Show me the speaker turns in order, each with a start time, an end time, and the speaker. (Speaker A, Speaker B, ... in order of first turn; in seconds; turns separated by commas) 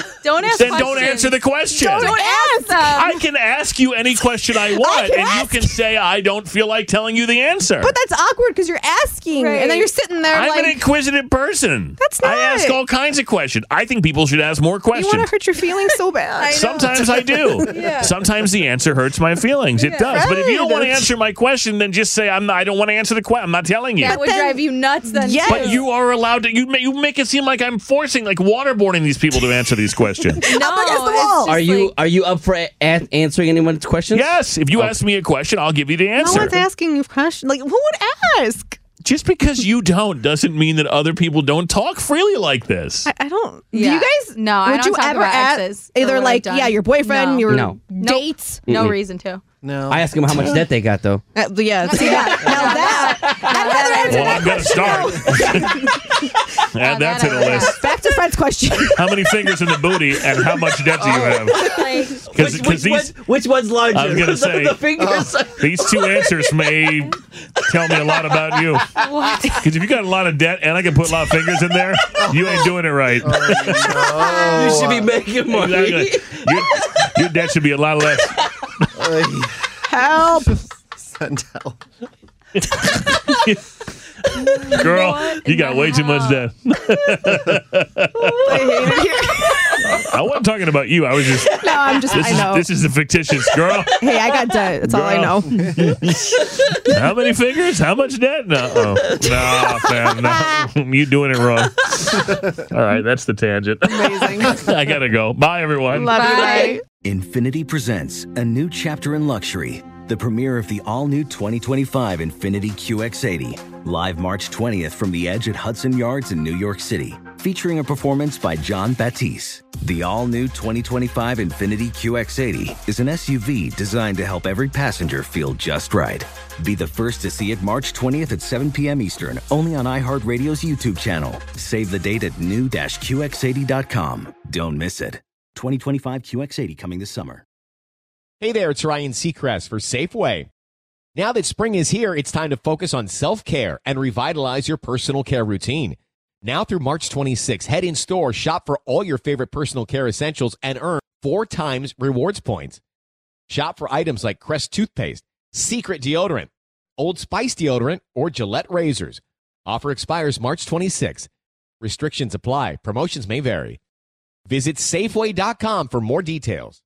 Speaker A: 0.2-3.1, Speaker B: 0.5-0.9, Speaker C: 0.5-2.1, Speaker B: 1.8-3.1, Speaker C: 2.9-7.9, Speaker B: 4.6-5.7, Speaker B: 7.8-10.8, Speaker A: 9.3-9.9, Speaker C: 10.3-15.3, Speaker B: 12.0-12.8, Speaker B: 14.9-17.6, Speaker A: 16.4-18.1, Speaker C: 16.5-24.2, Speaker A: 19.8-20.2, Speaker B: 20.0-21.1, Speaker A: 24.0-25.7, Speaker B: 24.0-25.8, Speaker C: 25.5-30.4, Speaker A: 30.4-31.9, Speaker B: 30.4-31.6, Speaker D: 31.4-35.0, Speaker C: 34.1-36.6, Speaker B: 36.2-38.8, Speaker C: 39.0-43.1, Speaker B: 43.1-48.7, Speaker A: 43.7-49.4, Speaker D: 47.5-47.9, Speaker D: 48.6-49.0, Speaker E: 49.6-50.1, Speaker D: 49.9-51.2, Speaker C: 50.3-50.5, Speaker B: 51.4-55.9, Speaker A: 51.8-55.5, Speaker D: 52.5-53.9, Speaker C: 54.0-55.8, Speaker E: 54.6-55.8, Speaker C: 56.7-57.8, Speaker A: 56.8-57.8, Speaker B: 57.6-59.3, Speaker C: 58.9-61.7, Speaker D: 60.9-66.6, Speaker A: 61.7-62.2, Speaker C: 62.2-63.1, Speaker C: 63.9-64.9, Speaker E: 65.0-65.3, Speaker C: 65.5-68.9, Speaker D: 67.6-69.5, Speaker A: 69.0-69.5, Speaker C: 69.6-74.2, Speaker E: 72.1-72.7, Speaker E: 73.2-75.2, Speaker D: 74.0-77.2, Speaker C: 75.5-78.4, Speaker E: 79.0-79.5, Speaker B: 79.9-80.6, Speaker E: 80.4-81.8, Speaker C: 82.6-83.6, Speaker C: 84.3-88.9, Speaker A: 84.8-86.5, Speaker D: 84.9-85.5, Speaker B: 88.2-89.9, Speaker C: 89.8-94.2, Speaker D: 91.3-92.2, Speaker B: 91.6-92.7, Speaker D: 93.4-94.1, Speaker B: 94.0-95.5, Speaker C: 94.8-106.2, Speaker D: 96.3-96.8, Speaker D: 98.7-100.2, Speaker B: 103.8-104.6, Speaker B: 105.9-106.8, Speaker A: 106.1-106.8, Speaker D: 106.2-106.7, Speaker F: 106.9-137.4, Speaker G: 138.4-140.5, Speaker G: 141.2-152.8, Speaker G: 153.5-161.3, Speaker G: 161.8-163.8, Speaker G: 164.5-166.8